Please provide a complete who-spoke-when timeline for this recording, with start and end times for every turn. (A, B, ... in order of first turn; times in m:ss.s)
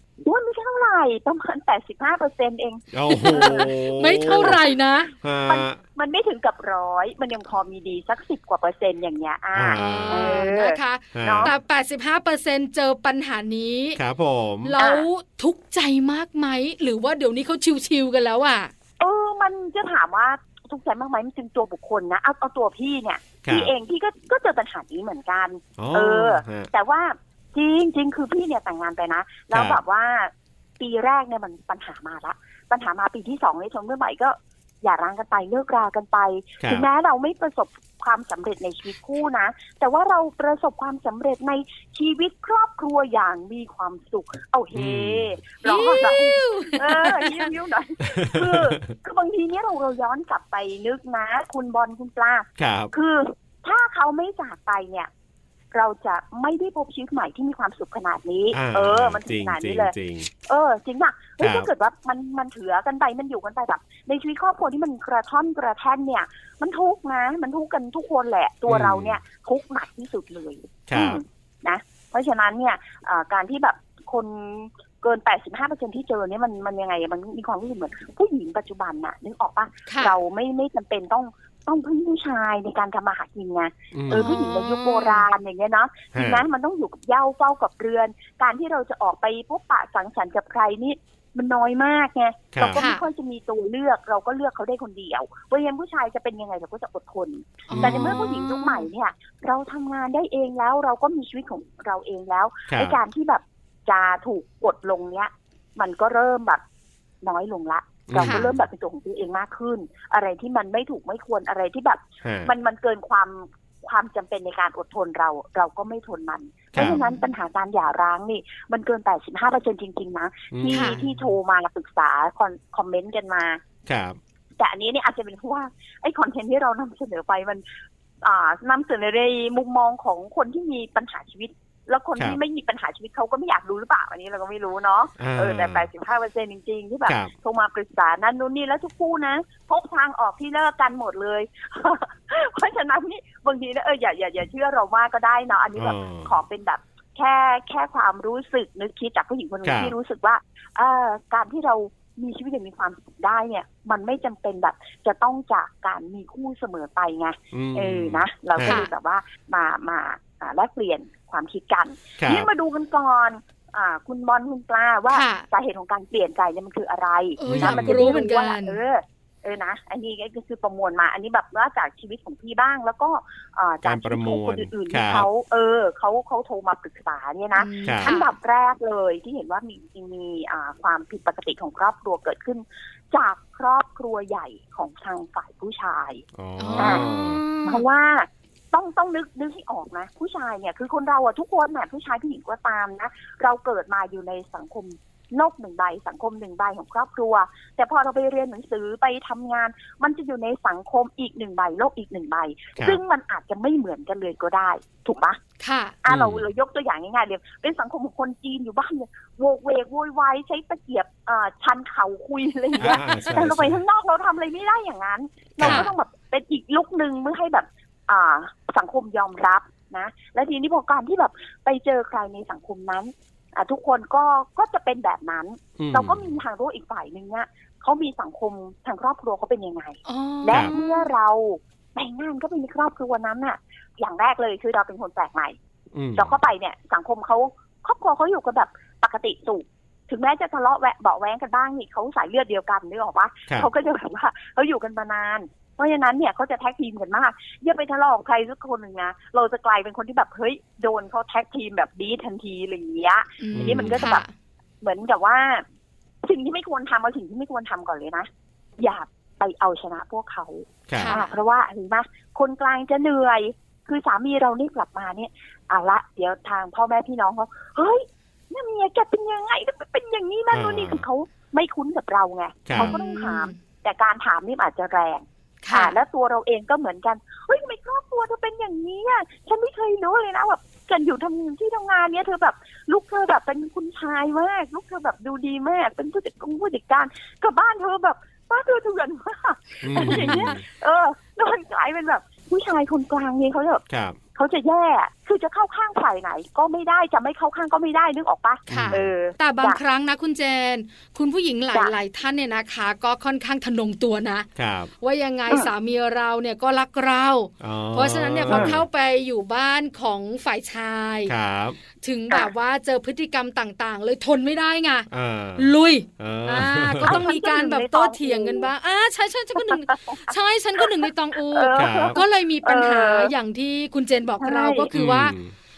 0:00.2-0:04.6 A
0:02.9-0:04.6 B
0:03.1-0:05.1 C
0:05.2-0:05.8 B
0:05.5-0:11.5 A
0:09.6-0:10.5 B
0:09.8-0:14.0 C
0:11.1-0:11.6 B
0:14.0-0:14.8 B
0:14.6-0:18.7 C
0:14.8-0:15.1 A
0:19.0-0:55.1 A
0:23.4-0:23.7 B
0:25.8-0:26.7 B
0:29.5-0:29.8 B
0:36.6-0:36.9 B
0:44.7-0:45.4 B
0:45.6-0:47.5 C
0:48.0-0:48.9 B
0:52.6-0:52.9 B
0:55.7-0:59.9 A
0:58.5-1:00.3 B
1:00.5-1:46.6 A
1:01.4-1:01.7 B
1:08.7-1:09.2 B
1:10.9-1:11.2 B
1:19.9-1:20.2 C
1:23.9-1:24.3 B
1:24.1-1:25.2 C
1:26.1-1:26.4 B
1:32.5-1:32.8 B
1:32.8-1:33.0 C
1:37.7-1:38.9 C
1:37.7-1:38.2 B
1:42.7-1:43.0 B
1:47.2-2:03.6 A
1:48.1-1:48.6 B
1:48.2-1:48.5 C
1:52.2-1:52.5 B
1:56.7-1:57.0 B
1:56.8-1:57.2 C
2:00.5-2:01.4 B
2:00.7-2:01.0 C
2:03.9-2:04.2 B
2:04.6-2:07.6 A
2:08.2-3:06.2 A
2:15.2-2:15.9 B
2:17.1-2:17.3 B
2:25.8-2:26.4 B
2:29.6-2:30.0 B
2:37.5-2:38.9 B
2:38.6-2:38.9 C
2:42.2-2:42.5 B
2:45.1-2:45.5 C
2:47.4-2:48.8 C
2:47.5-2:48.1 B
2:53.8-2:55.3 B
2:57.6-2:58.3 C
2:57.8-2:58.1 B
3:06.3-3:07.4 B
3:06.6-3:07.8 C
3:06.8-3:07.0 A
3:07.6-3:25.4 A
3:25.6-3:26.0 C
3:26.0-3:55.6 A
3:26.1-3:26.5 B
3:32.8-3:33.8 B
3:32.8-3:33.2 C
3:35.6-3:35.9 B
3:35.6-3:35.9 C
3:45.8-3:46.3 B
3:50.1-3:51.1 C
3:55.9-3:56.4 B
3:56.2-4:14.2 A
4:13.4-4:14.3 C
4:13.6-4:14.2 B
4:14.8-4:15.6 A
4:16.2-4:53.8 A
4:20.9-4:21.2 B
4:21.0-4:21.3 C
4:30.5-4:31.0 B
4:32.7-4:33.0 B
4:32.8-4:33.6 C
4:35.6-4:36.0 C
4:49.8-4:50.6 B
4:50.0-4:50.6 C
4:53.9-4:54.2 B
4:54.4-4:59.8 A
4:58.7-4:59.0 B
4:58.7-5:04.5 C
5:04.6-5:04.9 B
5:05.0-5:11.3 C
5:07.6-5:08.8 B
5:08.5-5:08.8 A
5:11.3-5:11.8 B
5:12.0-5:25.4 C
5:15.1-5:17.2 B
5:17.0-5:18.7 A
5:19.6-5:20.9 A
5:21.5-5:23.3 A
5:21.8-5:22.2 B
5:24.4-5:24.9 A
5:24.9-5:25.5 B